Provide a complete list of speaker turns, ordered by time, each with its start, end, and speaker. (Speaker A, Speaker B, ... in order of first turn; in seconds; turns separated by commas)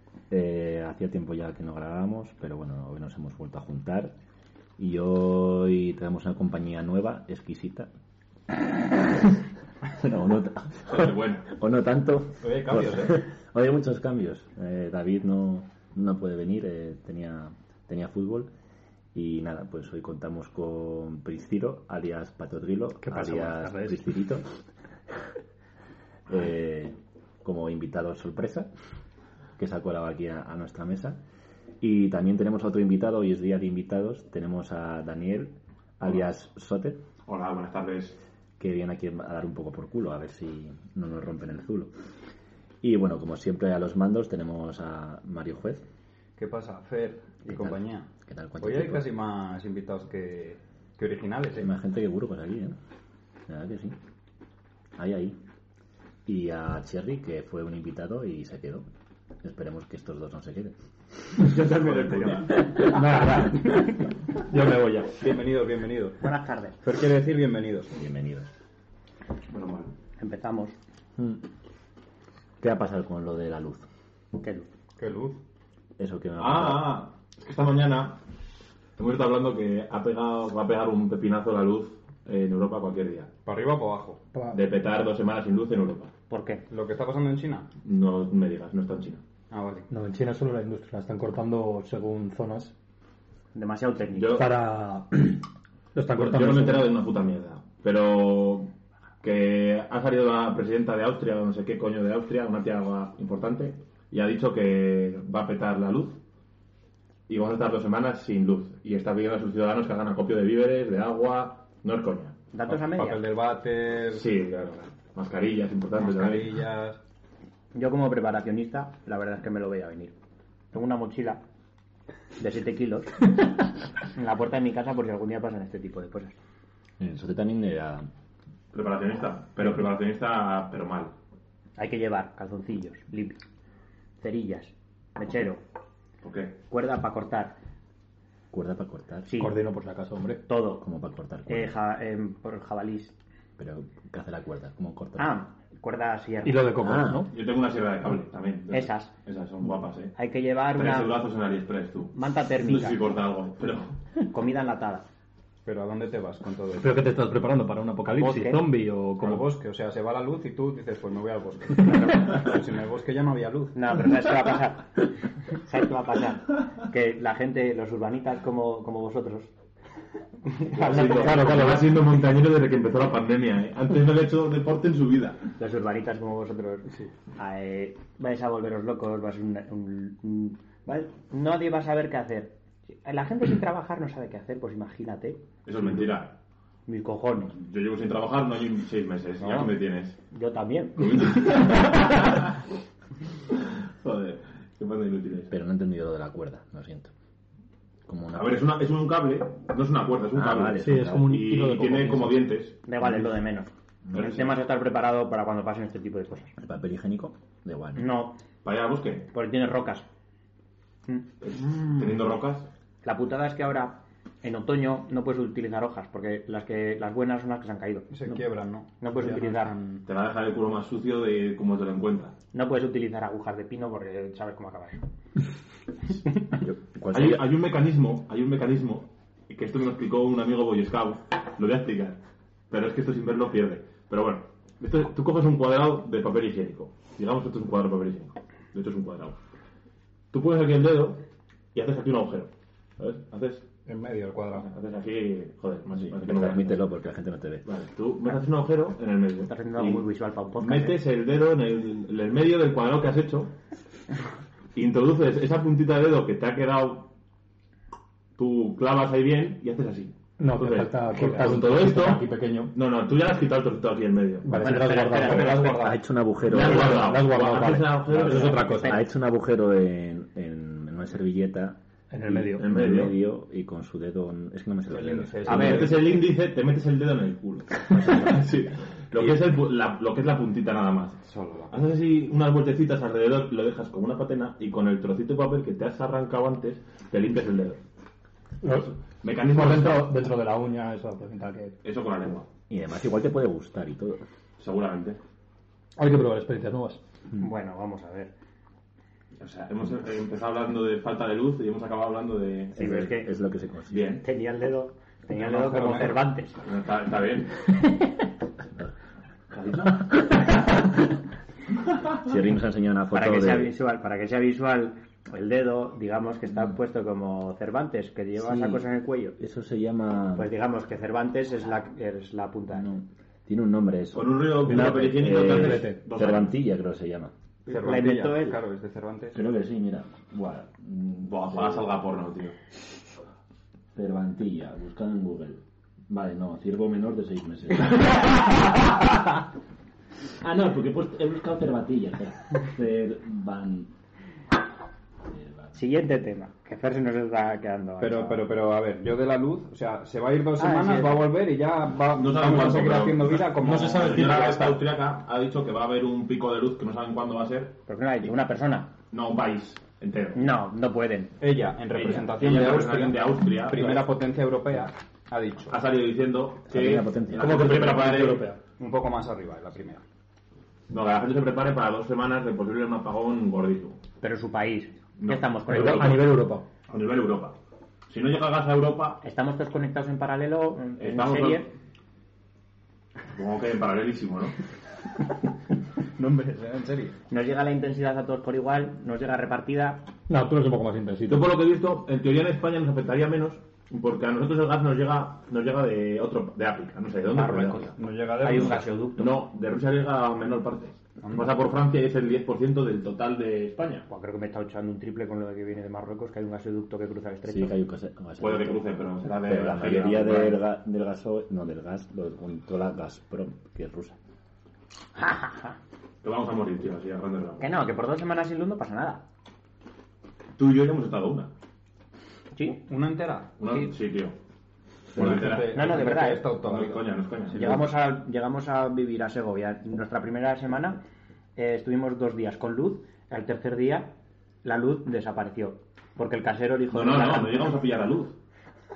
Speaker A: 0.3-4.1, Speaker A: 4.8-7.9, Speaker A: 8.5-9.3, Speaker A: 9.9-18.5, Speaker B: 10.9-11.5, Speaker C: 12.4-13.2, Speaker A: 19.1-24.5, Speaker D: 23.0-24.1, Speaker A: 26.3-28.7, Speaker A: 29.6-31.2, Speaker A: 31.8-37.0, Speaker B: 37.3-38.2, Speaker A: 38.6-41.9, Speaker A: 42.8-45.8, Speaker C: 46.4-48.1, Speaker A: 47.5-49.1, Speaker C: 48.6-51.7, Speaker A: 51.6-52.8, Speaker A: 53.5-54.0, Speaker A: 55.0-55.4, Speaker A: 56.3-58.9, Speaker A: 59.4-60.7, Speaker B: 61.4-62.7, Speaker E: 62.6-63.9, Speaker D: 62.8-65.2, Speaker C: 65.2-66.2, Speaker E: 66.2-66.8, Speaker C: 66.8-67.9, Speaker A: 67.9-68.5, Speaker B: 69.5-69.9, Speaker E: 70.2-70.8, Speaker A: 72.6-73.9, Speaker E: 74.3-74.7, Speaker C: 75.0-75.4, Speaker A: 76.0-77.0, Speaker B: 76.4-78.2, Speaker B: 79.0-83.3, Speaker C: 83.5-84.2, Speaker D: 84.3-84.6, Speaker B: 84.5-86.1, Speaker E: 86.3-86.7, Speaker C: 86.7-87.7, Speaker B: 87.8-89.2, Speaker C: 89.5-89.9, Speaker D: 89.9-92.7, Speaker E: 93.5-94.5, Speaker B: 94.2-94.5, Speaker D: 94.3-95.4, Speaker D: 96.0-96.9, Speaker B: 96.1-98.7, Speaker B: 99.2-106.2, Speaker B: 107.3-112.5, Speaker E: 112.5-113.2, Speaker C: 112.9-114.3, Speaker B: 114.1-116.6, Speaker C: 116.0-117.0, Speaker E: 117.7-120.1, Speaker E: 120.7-121.4, Speaker E: 122.4-123.5, Speaker E: 124.1-126.3, Speaker A: 127.0-128.1, Speaker B: 128.7-131.1, Speaker E: 131.8-133.4, Speaker E: 134.2-135.6, Speaker B: 136.2-136.6, Speaker E: 136.7-137.6, Speaker A: 138.5-139.3, Speaker E: 139.3-139.6, Speaker D: 139.4-140.5, Speaker E: 140.5-140.8, Speaker A: 140.8-141.8, Speaker E: 141.5-143.1, Speaker A: 143.6-145.4, Speaker E: 145.2-146.8, Speaker D: 146.4-147.3, Speaker A: 146.8-147.3, Speaker B: 147.3-150.1, Speaker E: 148.7-149.1, Speaker E: 150.2-151.2, Speaker B: 150.8-154.0, Speaker E: 152.2-153.0, Speaker E: 154.2-155.0, Speaker C: 155.7-157.1, Speaker D: 156.8-159.5, Speaker E: 158.2-158.7, Speaker C: 159.2-163.8, Speaker E: 161.9-162.4, Speaker E: 163.7-169.5, Speaker E: 170.4-171.8, Speaker B: 170.7-175.4, Speaker D: 171.1-172.0, Speaker E: 175.6-185.4, Speaker B: 185.7-186.4, Speaker E: 186.9-187.6, Speaker B: 187.5-190.2, Speaker E: 189.4-189.7, Speaker E: 190.3-192.2, Speaker B: 191.0-192.5, Speaker B: 193.5-195.5, Speaker A: 195.5-197.1, Speaker A: 198.1-198.7, Speaker B: 198.3-202.8, Speaker A: 200.3-201.4, Speaker D: 200.8-202.4, Speaker E: 202.8-206.5, Speaker A: 204.1-204.3, Speaker B: 204.1-204.5, Speaker A: 206.6-208.1, Speaker E: 207.9-208.4, Speaker B: 208.6-209.3, Speaker E: 209.3-210.1, Speaker B: 211.4-212.7, Speaker E: 213.0-218.2, Speaker C: 218.1-220.0, Speaker E: 219.0-219.7, Speaker B: 220.1-222.3, Speaker E: 222.5-225.1, Speaker A: 226.6-227.5, Speaker B: 227.1-232.2, Speaker B: 232.7-239.4, Speaker B: 240.3-241.2, Speaker B: 241.7-243.7, Speaker C: 243.9-244.7, Speaker B: 244.6-246.8, Speaker A: 245.9-247.7, Speaker B: 247.7-250.1, Speaker E: 249.5-251.0, Speaker B: 250.6-253.5, Speaker B: 254.8-257.1, Speaker B: 258.4-264.5, Speaker D: 260.4-262.7, Speaker D: 264.4-269.0, Speaker E: 264.5-265.9, Speaker C: 265.1-265.8, Speaker A: 265.6-267.1, Speaker B: 266.5-268.9, Speaker E: 268.3-269.0, Speaker A: 268.7-276.0, Speaker D: 272.1-272.7, Speaker B: 272.6-273.1, Speaker C: 274.9-276.1, Speaker B: 275.4-281.2, Speaker C: 281.2-281.7, Speaker B: 281.7-287.8, Speaker D: 288.6-288.9, Speaker B: 288.7-290.2, Speaker D: 289.5-291.8, Speaker B: 291.8-292.5, Speaker A: 292.7-294.2, Speaker B: 294.6-295.2, Speaker D: 296.0-297.0, Speaker E: 297.4-298.3, Speaker B: 299.4-302.8, Speaker A: 302.8-304.2, Speaker E: 302.8-303.3, Speaker B: 303.9-304.2, Speaker E: 304.2-306.6, Speaker C: 305.3-306.3, Speaker B: 306.6-307.6, Speaker B: 309.5-310.9, Speaker A: 312.2-313.7, Speaker E: 313.1-319.4, Speaker A: 318.4-318.9, Speaker A: 319.4-320.5, Speaker E: 320.4-322.9, Speaker A: 322.7-327.3, Speaker B: 324.1-326.5, Speaker D: 325.3-326.0, Speaker E: 327.7-328.6, Speaker C: 327.7-329.5, Speaker A: 329.3-331.9, Speaker B: 331.3-332.5, Speaker A: 333.9-338.6, Speaker A: 340.4-343.9, Speaker A: 345.3-345.8, Speaker E: 345.7-348.4, Speaker C: 348.0-354.2, Speaker E: 350.6-351.3, Speaker B: 352.1-357.8, Speaker D: 353.5-354.8, Speaker E: 357.9-358.9, Speaker B: 359.1-360.5, Speaker E: 360.3-361.3, Speaker C: 361.4-365.8, Speaker B: 361.9-364.1, Speaker B: 365.7-368.5, Speaker A: 366.7-367.6, Speaker D: 367.4-368.6, Speaker C: 368.8-370.0, Speaker B: 370.9-374.0, Speaker E: 374.2-376.2, Speaker B: 375.2-377.6, Speaker D: 375.7-376.6, Speaker B: 378.1-379.2, Speaker E: 379.2-381.7, Speaker B: 381.0-381.7, Speaker B: 383.3-384.6, Speaker C: 386.2-387.2, Speaker E: 387.3-390.1, Speaker D: 390.3-391.5, Speaker B: 391.3-397.9, Speaker E: 397.3-399.4, Speaker C: 398.0-398.9, Speaker B: 398.5-404.1, Speaker C: 401.2-401.5, Speaker E: 404.1-407.8, Speaker A: 407.5-414.2, Speaker B: 408.4-410.6, Speaker E: 415.2-415.8, Speaker B: 416.2-417.8, Speaker E: 417.6-419.2, Speaker B: 420.6-421.5, Speaker C: 422.8-423.5, Speaker B: 423.6-424.4, Speaker C: 425.1-427.8, Speaker B: 425.1-427.9, Speaker E: 425.5-426.4, Speaker E: 427.6-431.0, Speaker E: 431.6-434.1, Speaker E: 434.6-437.7, Speaker B: 436.9-438.4